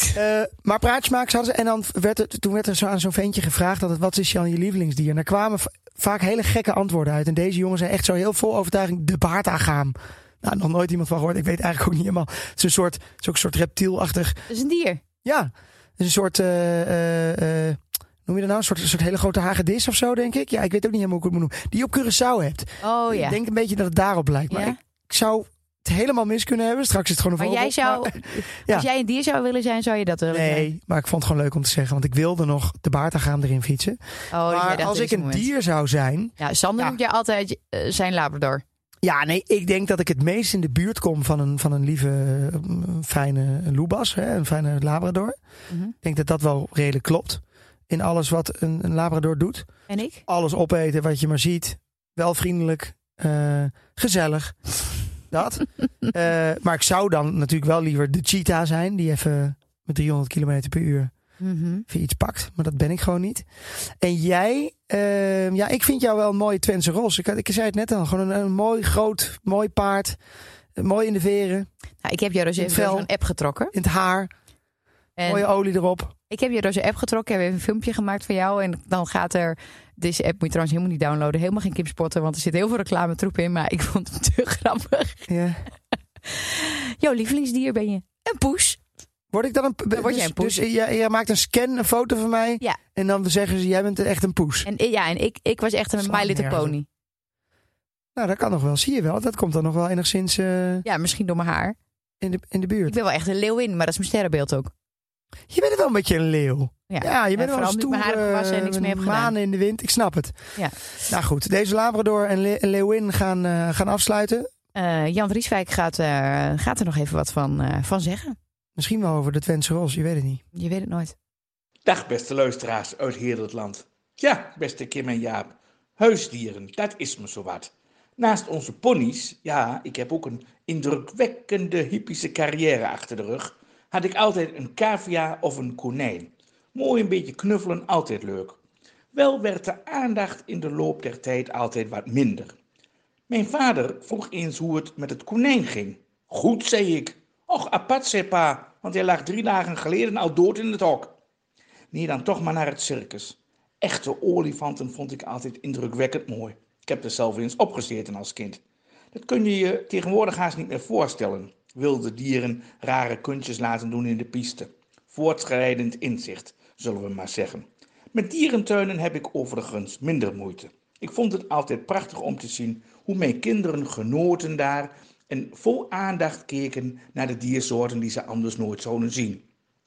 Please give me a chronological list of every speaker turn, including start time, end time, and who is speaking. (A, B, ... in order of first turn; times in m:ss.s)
0:00.1-0:14.4 A
0:14.5-0:15.0 B
0:15.2-0:28.9 A
0:22.8-0:23.4 B
0:24.5-0:24.8 B
0:27.4-0:30.7 B
0:30.3-0:36.9 A
0:34.3-0:35.5 B
0:36.4-0:38.6 B
0:39.0-0:45.4 A
0:46.0-0:49.7 A
0:49.9-0:50.2 B
0:50.3-0:54.6 A
0:55.3-1:01.1 A
1:01.4-1:01.8 B
1:01.9-1:03.5 A
1:04.0-1:10.2 A
1:10.8-1:11.7 A
1:12.0-1:13.7 B
1:12.6-1:13.1 A
1:13.7-1:14.3 A
1:15.2-1:15.4 B
1:15.2-1:16.1 A
1:16.3-1:25.3 B
1:25.3-1:25.7 A
1:26.2-1:28.8 B
1:29.3-1:34.7 A
1:29.9-1:30.6 B
1:34.6-1:36.9 B
1:36.0-1:36.8 A
1:38.2-1:40.8 A
1:40.8-1:41.8 B
1:42.2-1:43.0 A
1:42.9-1:44.7 B
1:45.5-1:50.4 A
1:46.9-1:49.4 B
1:51.1-1:54.5 A
1:54.8-1:58.4 B
1:58.8-2:00.4 A
2:00.5-2:01.2 B
2:01.8-2:18.6 C
2:19.1-2:22.6 C
2:23.3-2:31.2 C
2:31.9-2:38.6 C
2:39.1-2:59.4 C